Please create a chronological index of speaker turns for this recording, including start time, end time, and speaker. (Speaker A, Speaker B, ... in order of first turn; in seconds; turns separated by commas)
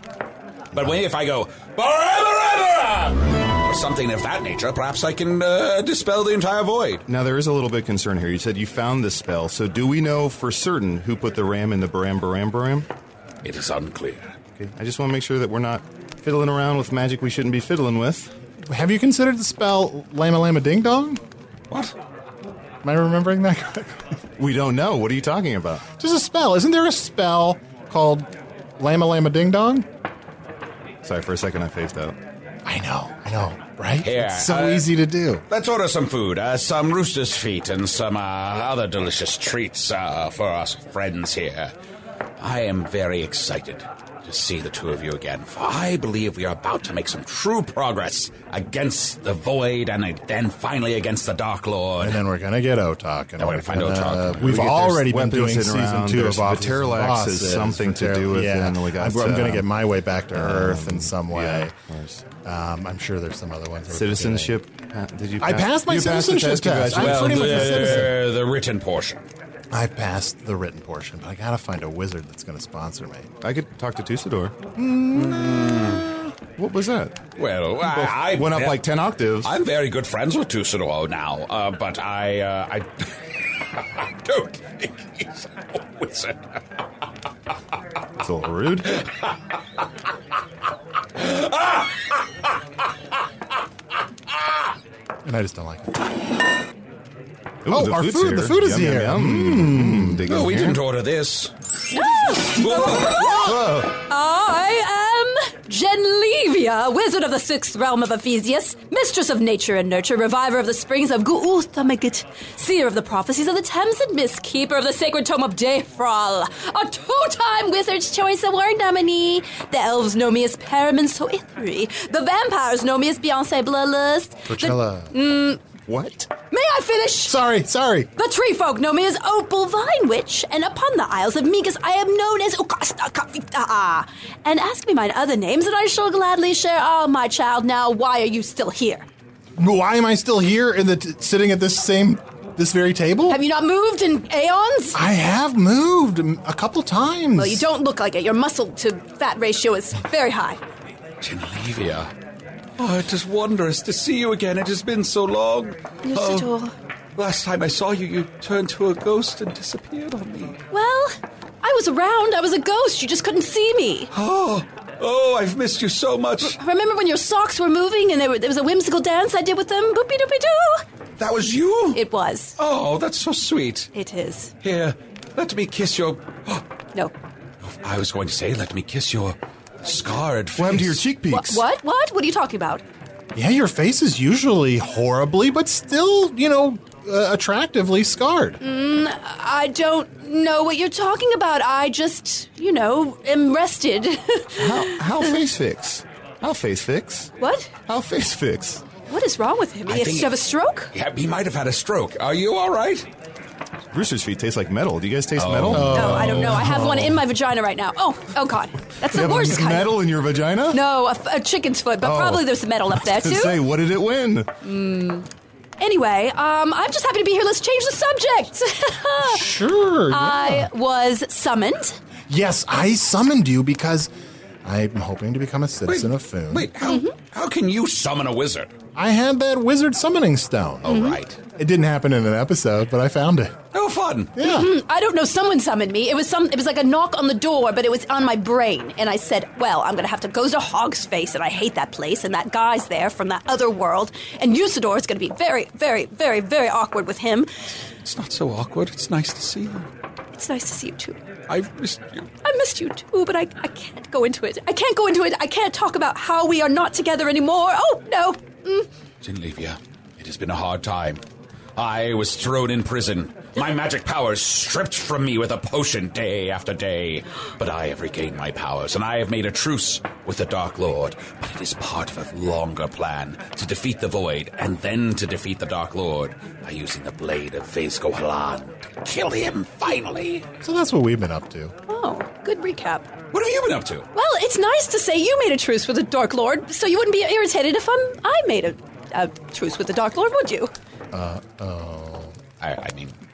Speaker A: 0.7-7.0, Speaker B: 7.1-12.9, Speaker A: 13.4-14.3, Speaker B: 14.6-18.3, Speaker C: 18.7-21.2, Speaker C: 22.8-23.9, Speaker B: 24.4-25.8, Speaker C: 26.0-29.9, Speaker B: 31.0-32.1, Speaker C: 32.6-35.4, Speaker A: 34.0-34.9, Speaker A: 35.5-41.7, Speaker A: 42.4-52.2, Speaker C: 52.0-61.7, Speaker A: 53.4-54.7, Speaker B: 54.4-59.6, Speaker B: 60.3-62.2, Speaker C: 62.4-64.5, Speaker B: 63.9-68.1, Speaker C: 65.4-68.2, Speaker A: 66.9-69.2, Speaker C: 69.7-73.3, Speaker B: 73.4-74.5, Speaker C: 74.8-75.4, Speaker A: 75.1-76.1, Speaker B: 76.6-77.2, Speaker A: 77.4-78.8, Speaker B: 77.8-79.5, Speaker A: 79.4-86.4, Speaker B: 88.2-89.0, Speaker A: 91.2-91.9, Speaker C: 95.2-96.1, Speaker B: 97.6-100.8, Speaker C: 97.7-100.2, Speaker A: 100.3-101.5, Speaker D: 101.9-125.6, Speaker A: 102.0-103.6, Speaker B: 103.0-103.9, Speaker C: 124.5-125.1, Speaker B: 125.9-126.3, Speaker D: 126.5-127.3, Speaker C: 127.2-128.1, Speaker D: 128.2-139.1, Speaker C: 139.6-143.4, Speaker D: 143.3-145.0, Speaker C: 144.9-147.7, Speaker D: 147.3-150.6, Speaker A: 151.2-152.1, Speaker A: 152.8-156.5, Speaker D: 156.0-156.7, Speaker A: 157.2-160.6, Speaker D: 160.7-164.1, Speaker A: 164.1-166.6, Speaker D: 166.4-170.8, Speaker A: 171.2-172.0, Speaker D: 171.9-172.5, Speaker A: 172.6-173.9, Speaker D: 173.9-174.5, Speaker A: 174.6-176.6, Speaker A: 177.6-181.0, Speaker B: 180.6-181.6, Speaker D: 181.3-182.8, Speaker C: 183.3-188.6, Speaker D: 188.6-195.4, Speaker B: 194.6-197.3, Speaker D: 197.4-197.7, Speaker B: 197.9-198.8, Speaker D: 199.1-200.9, Speaker A: 199.9-200.4, Speaker A: 200.9-203.1, Speaker B: 203.9-206.9, Speaker A: 205.3-206.4, Speaker C: 205.7-207.1, Speaker D: 205.9-209.9, Speaker B: 209.0-210.8, Speaker D: 210.7-213.6, Speaker B: 212.0-214.5, Speaker D: 214.6-215.2, Speaker D: 215.8-219.6, Speaker C: 219.2-220.7, Speaker D: 220.1-222.0, Speaker C: 222.3-224.1, Speaker C: 224.6-226.7, Speaker A: 225.9-228.7, Speaker D: 226.8-227.1, Speaker C: 228.9-231.0, Speaker A: 230.8-231.4, Speaker D: 230.9-231.2, Speaker C: 231.6-233.5, Speaker A: 233.7-234.3, Speaker C: 234.4-234.7, Speaker D: 234.4-247.5, Speaker A: 248.0-249.9, Speaker D: 250.3-251.2, Speaker A: 251.5-252.3, Speaker D: 252.4-258.9, Speaker A: 259.2-261.2, Speaker A: 261.8-280.4, Speaker C: 280.6-281.7, Speaker D: 281.9-283.1, Speaker A: 283.3-284.1, Speaker D: 284.1-290.7, Speaker C: 291.1-292.3, Speaker A: 292.6-293.1